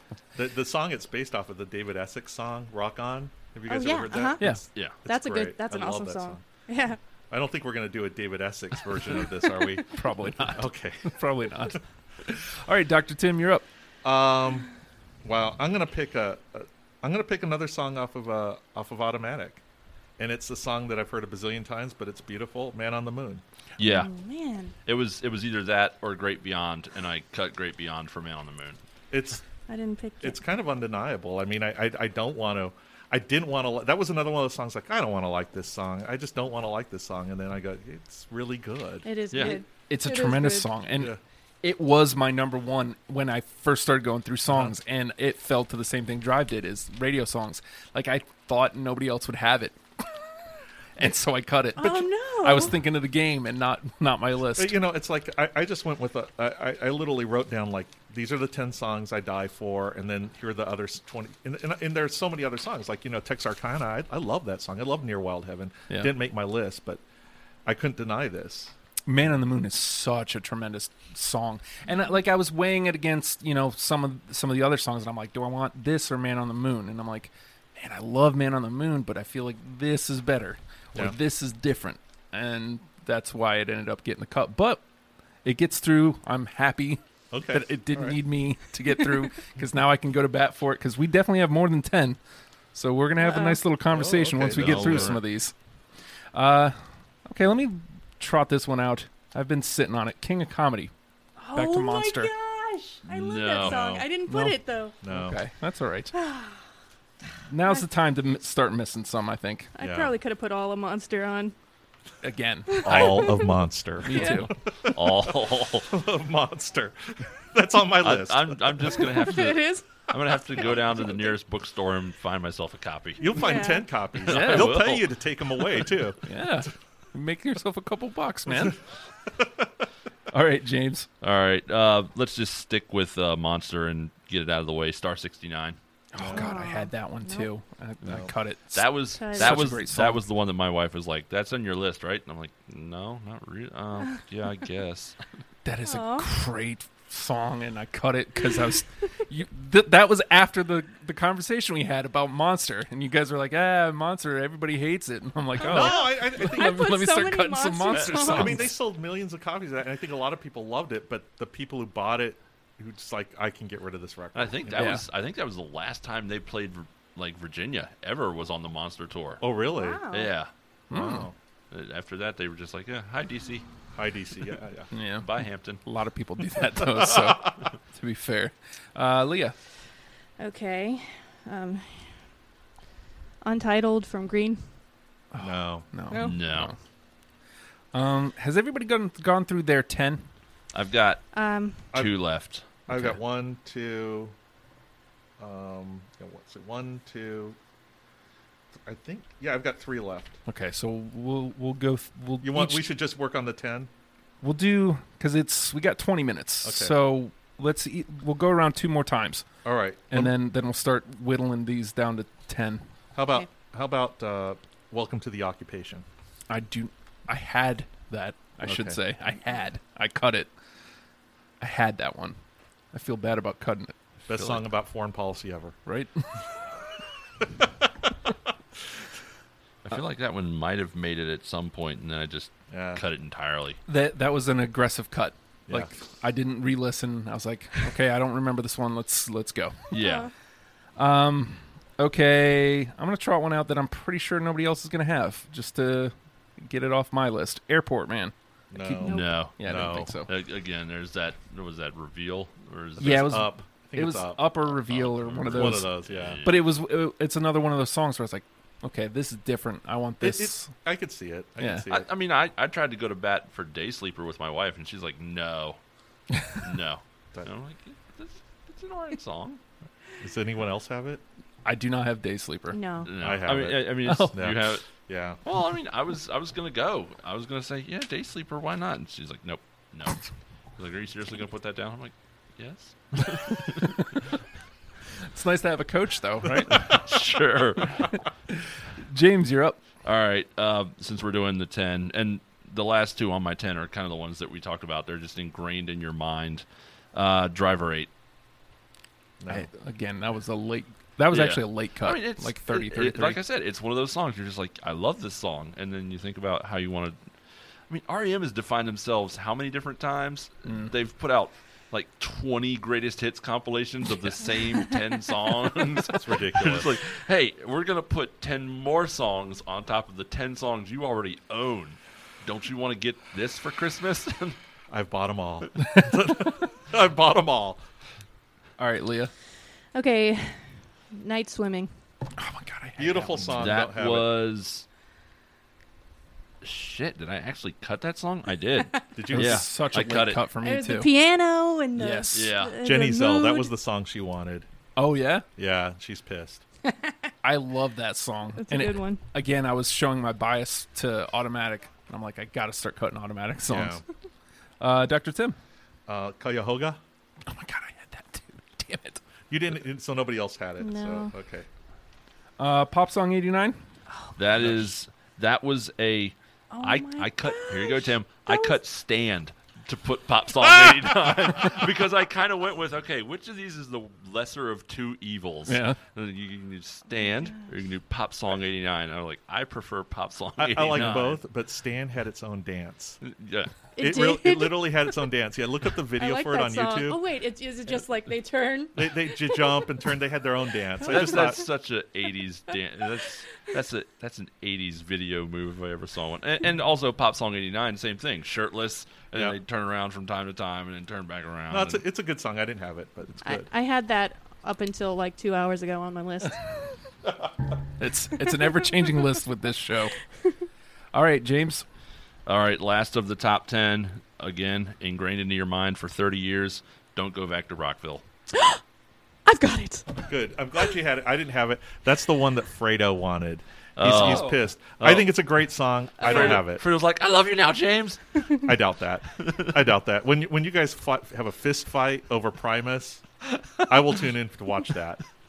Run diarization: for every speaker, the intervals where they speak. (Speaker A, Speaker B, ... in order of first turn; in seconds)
Speaker A: 0.3-6.4, 7.3-11.2, 14.0-14.7, 15.2-19.6, 20.2-23.4, 29.1-29.4, 30.2-39.5, 40.9-41.2, 44.5-44.7, 54.5-67.0, 67.7-68.7, 87.3-88.2, 93.9-95.2, 103.6-104.1, 105.0-105.4, 109.8-110.1, 112.8-119.3, 123.2-126.2, 129.4-129.7, 136.2-136.5, 138.0-138.3, 155.6-156.9, 158.2-165.0, 169.4-170.0, 170.9-171.3, 173.9-174.9, 176.8-177.7, 185.4-185.9, 192.9-194.3, 195.4-197.6, 198.8-200.4, 202.4-203.9, 206.6-207.0, 209.6-210.3, 213.1-216.0, 218.6-219.0, 224.2-225.8, 227.4-227.9, 232.7-233.0, 248.7-250.1, 253.0-254.5, 255.5-256.4, 260.2-262.1, 270.2-271.2, 273.2-275.4, 286.5-287.0, 299.4-299.7, 316.0-317.0, 324.9-327.8, 333.0-334.3, 339.1-339.7, 342.8-344.7, 345.6-346.6, 353.7-354.0, 356.1-357.0, 359.5-361.7, 364.6-364.9, 370.6-371.8, 380.6-383.2, 384.0-387.2, 388.9-391.6, 401.7-403.7, 420.2-426.8, 428.6-433.2, 433.8-435.2
Speaker B: 3.7-7.0, 23.8-24.7, 29.7-30.4, 39.0-40.7, 51.8-52.8, 93.2-93.6, 101.4-104.9, 106.1-106.6, 109.7-111.5, 112.7-114.5, 119.1-120.8, 123.2-123.9, 136.3-137.5, 139.2-139.6, 145.8-146.3, 155.6-158.6, 169.7-170.3, 180.4-182.2, 183.4-184.7, 186.1-186.4, 191.3-191.9, 239.9-240.3, 249.0-249.3, 272.7-273.1, 329.9-331.9, 340.6-343.7, 346.8-347.3, 348.6-349.2, 360.8-361.3, 366.7-368.7, 377.1-377.6, 383.9-385.1, 386.2-389.9, 391.0-391.6, 403.4-406.9, 418.5-418.8, 419.4-420.3, 426.2-426.6
Speaker C: 4.7-5.0, 23.8-24.1, 24.9-28.8, 39.3-39.6, 94.5-95.2, 103.1-103.9, 114.8-115.9, 118.0-123.3, 124.2-125.8, 131.2-135.8, 138.7-145.2, 157.9-158.2, 164.3-169.4, 170.1-170.5, 171.7-173.7, 175.2-175.8, 186.1-186.7, 190.7-191.3, 191.9-192.7, 224.3-224.6, 229.8-233.8, 239.9-240.3, 249.0-253.4, 254.8-256.6, 261.9-265.8, 266.6-269.6, 273.0-274.9, 275.4-280.2, 280.8-284.2, 286.7-288.2, 290.0-298.1, 301.3-307.2, 307.9-324.6, 333.5-334.9, 336.6-340.4, 342.3-342.8, 364.4-381.4, 383.2-383.7, 391.0-402.0, 412.4-418.2, 423.9-425.3, 426.2-428.4, 429.4-429.7
Speaker D: 9.9-13.6, 39.9-49.8, 51.0-54.7, 69.1-84.8, 85.4-92.2, 92.7-95.5, 96.3-100.9, 101.5-102.3, 104.3-106.1, 107.5-109.7, 112.2-113.4, 114.0-114.5, 124.3-124.8, 126.2-128.8, 130.3-131.1, 136.1-140.2, 145.6-158.7, 164.7-165.0, 170.9-171.3, 174.9-175.3, 175.8-179.6, 185.3-186.8, 187.9-190.2, 192.9-193.2, 200.4-202.9, 204.4-209.5, 210.1-212.8, 216.5-220.5, 221.6-222.4, 222.9-223.9, 225.8-226.2, 233.9-239.9, 241.0-250.3, 253.0-255.9, 256.4-260.7, 261.6-261.9, 271.6-272.8, 274.0-274.4, 285.3-287.0, 288.5-289.8, 299.5-303.4, 310.6-310.9, 328.8-329.3, 332.4-333.7, 339.3-341.1, 341.9-342.5, 344.9-345.4, 347.4-354.0, 354.8-355.6, 357.4-359.2, 362.6-363.8, 375.7-376.0, 408.0-410.1, 411.1-411.8, 424.1-424.6